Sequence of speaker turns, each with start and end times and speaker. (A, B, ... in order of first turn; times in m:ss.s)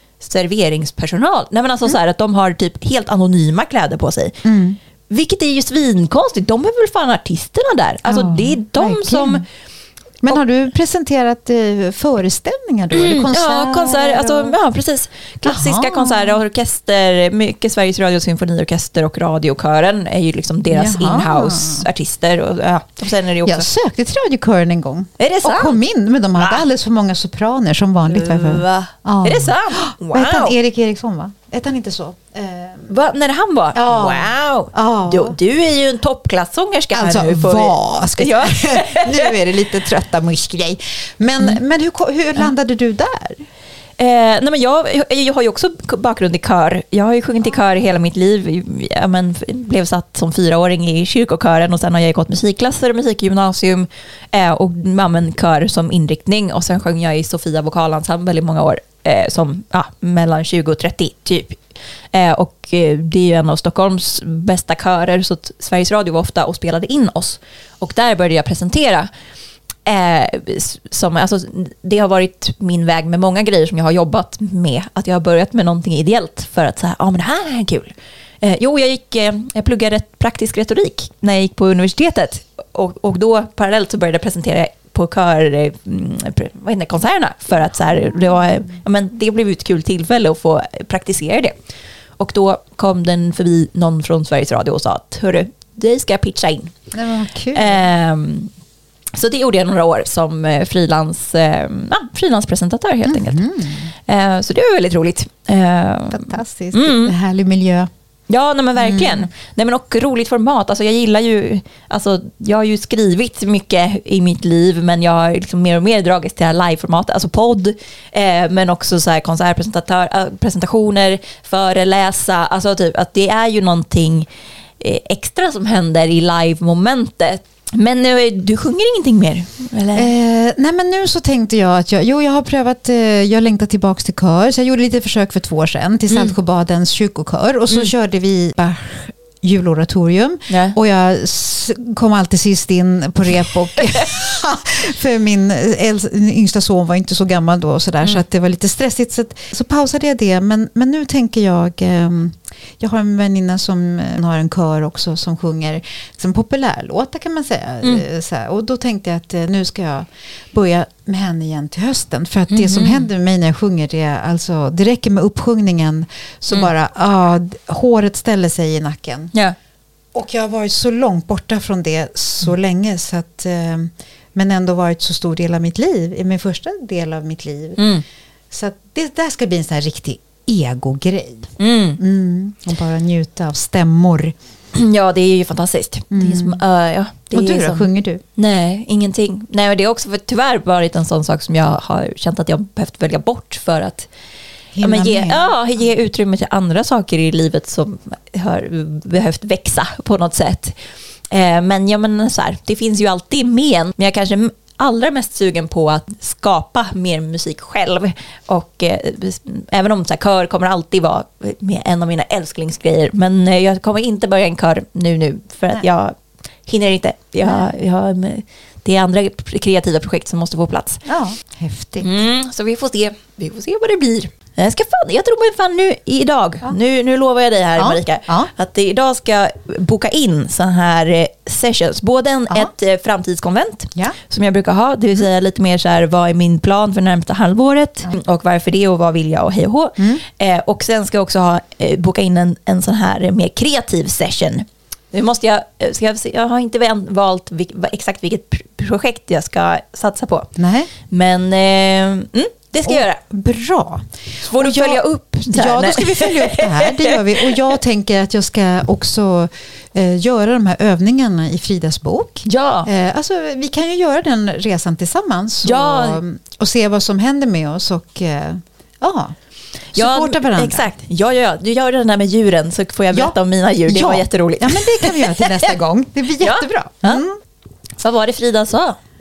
0:00.2-0:04.4 A
0:04.4-0:04.8 B
0:05.1-0:09.4 A
0:08.0-0:09.4 B
0:10.2-0:14.6 B
0:12.9-0:23.7 A
0:15.4-0:16.4 B
0:20.7-0:21.9 B
0:23.4-0:32.9 B
0:25.2-0:25.8 A
0:26.4-0:26.7 A
0:28.1-0:30.5 A
0:32.9-0:39.4 A
0:33.7-0:35.4 B
0:36.9-0:43.4 B
0:44.0-1:01.6 A
1:02.1-1:09.1 A
1:09.8-1:31.5 A
1:32.2-1:36.7 A
1:36.9-1:37.8 B
1:37.5-1:38.5 A
1:39.1-1:43.4 A
1:43.0-1:43.9 B
1:44.1-1:47.1 A
1:46.1-1:47.9 B
1:48.3-2:04.3 A
1:48.8-1:49.3 B
2:04.8-2:10.1 A
2:09.9-2:49.3 B
2:16.1-2:16.3 A
2:20.5-2:20.8 A
2:42.5-2:43.0 A
2:50.1-2:57.8 B
2:57.8-2:58.0 A
2:58.5-3:04.3 B
3:01.6-3:02.0 A
3:04.7-3:14.1 A
3:06.1-3:06.6 B
3:07.3-3:08.2 B
3:14.7-3:15.4 B
3:14.8-3:20.8 A
3:21.3-3:36.1 A
3:36.7-3:41.0 A
3:41.1-3:42.1 B
3:42.0-4:10.5 A
3:47.8-3:48.5 B
4:10.6-4:10.9 B
4:11.1-4:13.2 A
4:12.8-4:29.3 B
4:14.4-4:17.5 A
4:22.5-4:22.9 A
4:25.6-4:26.2 A
4:29.9-4:30.9 B
4:29.9-4:35.7 A
4:33.9-4:37.4 B
4:36.4-4:37.2 A
4:38.0-4:39.0 A